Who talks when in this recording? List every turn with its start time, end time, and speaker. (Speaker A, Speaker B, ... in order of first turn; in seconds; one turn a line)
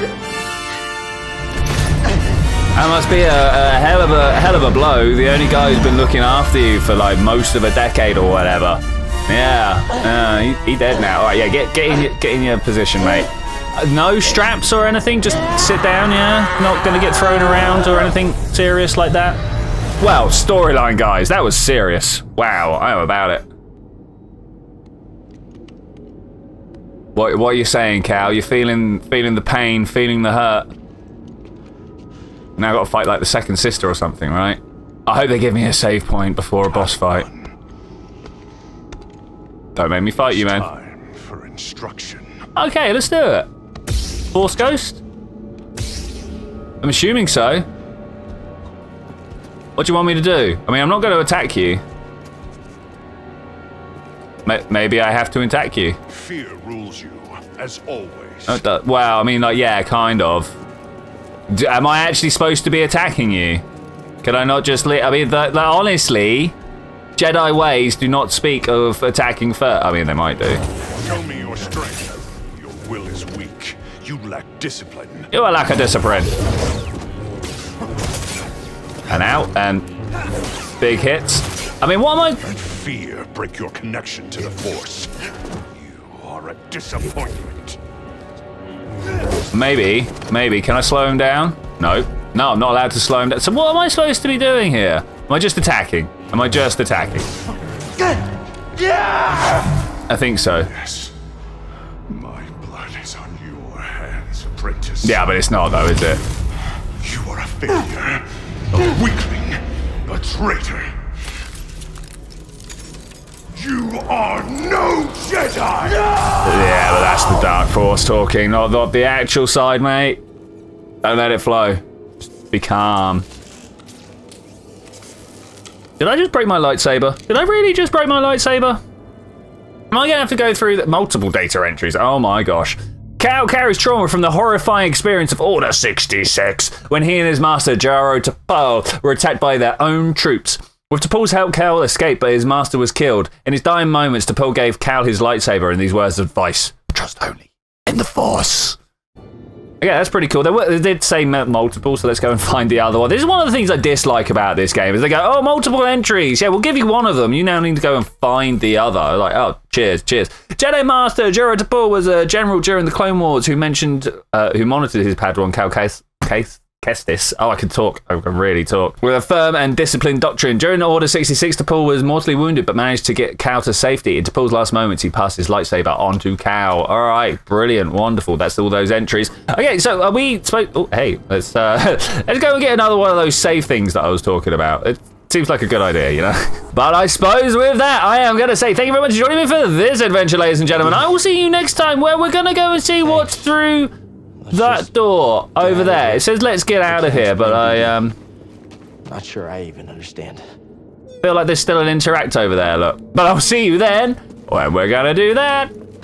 Speaker A: 2.7-19.4
Speaker A: 20.0-23.5
Speaker A: 27.1-30.7
Speaker A: 32.6-37.3
Speaker B: 36.7-37.5
Speaker A: 39.7-40.6
Speaker B: 40.4-42.4
Speaker A: 42.5-43.5
Speaker A: 44.3-45.0
Speaker A: 46.8-47.7
Speaker A: 49.8-51.8
Speaker A: 54.4-56.0
Speaker B: 56.1-58.6
Speaker A: 58.5-60.6
Speaker A: 61.5-63.6
Speaker A: 64.2-66.5
Speaker A: 67.2-70.6
Speaker B: 71.0-75.3
Speaker A: 75.3-76.3
Speaker A: 79.1-79.9
Speaker A: 80.8-82.4
Speaker B: 82.4-85.1
Speaker B: 85.8-87.8
Speaker A: 89.5-97.3
Speaker B: 99.1-99.5
Speaker A: 100.1-100.7
Speaker B: 100.7-101.1
Speaker B: 102.1-105.2
Speaker A: 105.0-106.2
Speaker B: 107.0-111.0
Speaker B: 113.5-116.9
Speaker A: 116.4-120.2
Speaker A: 121.0-123.2
Speaker A: 126.0-128.8
Speaker A: 129.9-148.8
Speaker A: 149.8-193.9
Speaker C: 194.4-194.8
Speaker A: 194.5-198.1
Speaker C: 195.6-196.2
Speaker C: 196.9-197.8
Speaker C: 199.1-200.4
Speaker A: 201.2-205.7